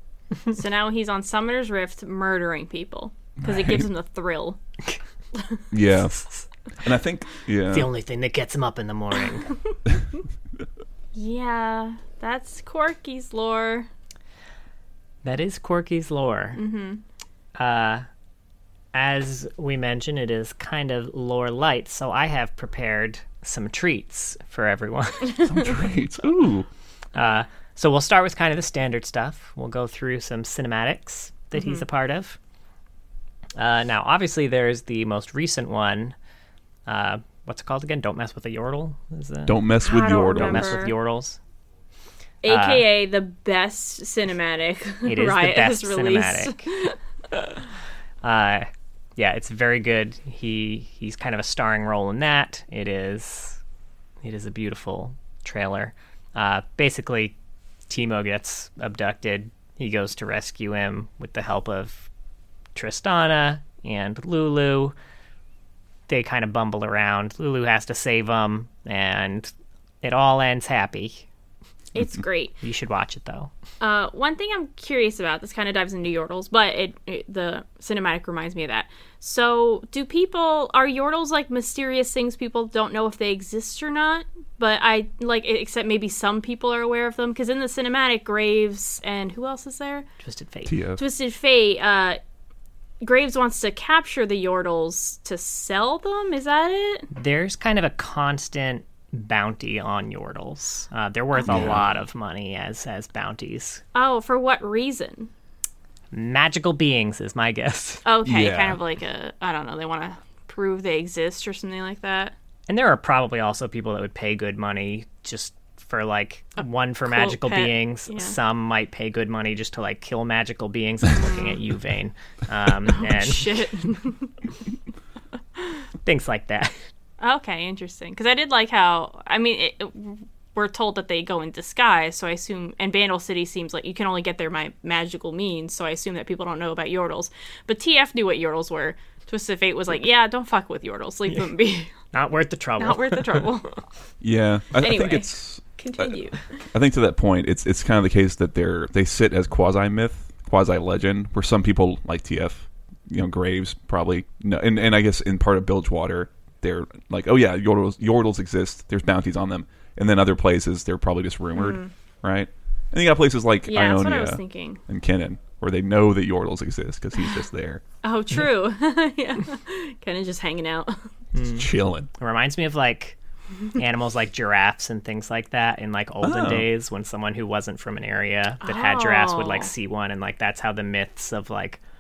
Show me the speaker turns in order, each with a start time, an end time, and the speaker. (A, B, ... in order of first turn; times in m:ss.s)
0:00.5-0:04.6 A
0:03.4-0:03.9 B
0:05.4-0:05.6 A
0:05.7-0:07.9 B
0:07.7-0:09.6 C
0:11.1-0:13.9 A
0:15.2-0:16.6 C
0:16.6-0:17.0 A
0:17.6-0:18.1 C
0:18.9-0:25.4 C
0:25.4-0:26.7 B
0:27.2-0:32.4 C
0:31.6-0:31.8 A
0:33.6-0:36.2 C
0:36.9-0:39.6 C
0:39.5-0:40.8 B
0:39.8-0:40.9 A
0:40.2-0:41.4 C
0:42.4-0:47.0 A
0:42.5-0:42.8 C
0:45.1-0:46.7 C
0:48.2-0:53.6 C
0:54.2-0:57.4 C
0:57.9-1:02.1 C
1:02.8-1:04.9 C
1:06.1-1:11.3 C
1:11.9-1:12.6 A
1:12.6-1:13.5 C
1:13.8-1:30.1 A
1:30.2-1:30.7 C
1:30.7-1:31.0 B
1:31.0-1:32.2 A
1:33.0-1:37.1 A
1:37.1-1:43.8 C
1:41.4-1:41.8 A
1:41.5-1:41.8 B
1:44.0-1:45.3 A
1:46.1-1:48.0 C
1:48.0-1:52.3 A
1:48.2-1:48.8 B
1:52.7-2:03.6 C
1:57.0-1:58.4 A
2:01.1-2:01.6 A
2:02.9-2:04.3 A
2:06.0-2:06.8 C
2:07.2-2:22.0 A
2:22.1-2:23.5 C
2:22.8-2:23.8 A
2:24.2-2:26.2 B
2:24.8-2:26.7 A
2:26.7-2:47.8 B
2:41.6-2:41.9 A
2:43.7-2:44.8 A
2:48.0-2:51.1 A
2:51.4-2:53.2 C
2:51.5-2:52.1 B
2:53.7-3:01.8 C
2:56.2-2:56.7 B
2:58.6-2:59.7 A